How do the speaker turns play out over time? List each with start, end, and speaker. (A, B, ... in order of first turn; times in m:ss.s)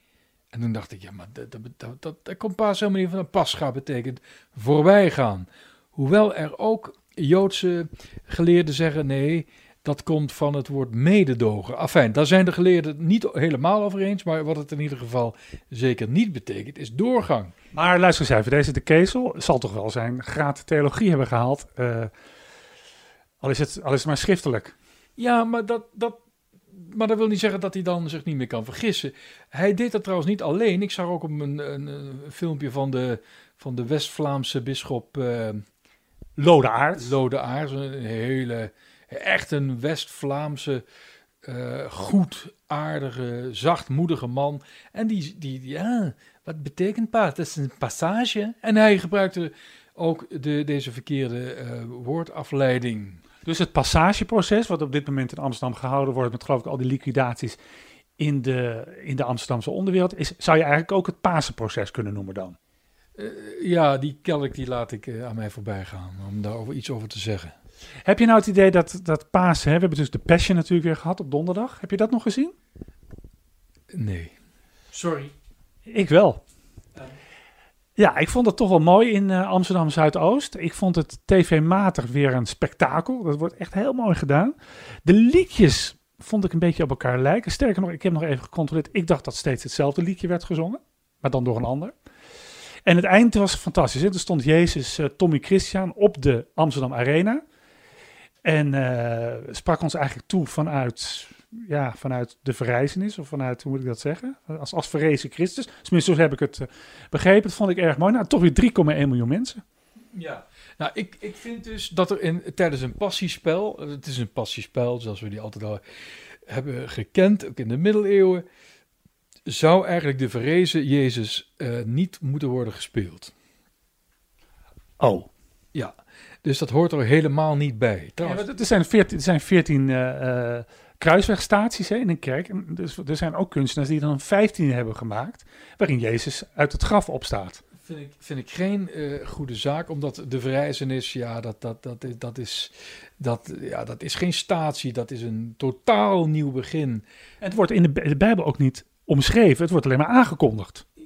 0:00.5-0:17.5 A
0:17.7-0:22.1 B
0:23.4-0:24.8 B
0:25.2-0:26.2 A
0:26.7-0:35.6 A
0:36.4-0:37.2 B
0:37.0-0:40.8 A
0:41.4-0:53.2 A
0:53.4-0:57.6 B
0:58.2-1:02.6 B
1:03.2-1:07.5 A
1:08.1-1:12.6 B
1:13.9-1:14.3 A
1:14.9-1:15.3 A
1:15.9-1:16.4 B
1:18.0-1:31.9 B
1:32.8-1:37.4 B
1:38.4-1:49.6 B
1:50.1-1:55.8 A
1:56.4-1:58.4 A
1:59.5-2:03.3 A
2:05.0-2:05.3 B
2:05.7-2:08.5 A
2:08.2-2:17.6 B
2:17.8-2:27.0 A
2:27.4-2:30.8 B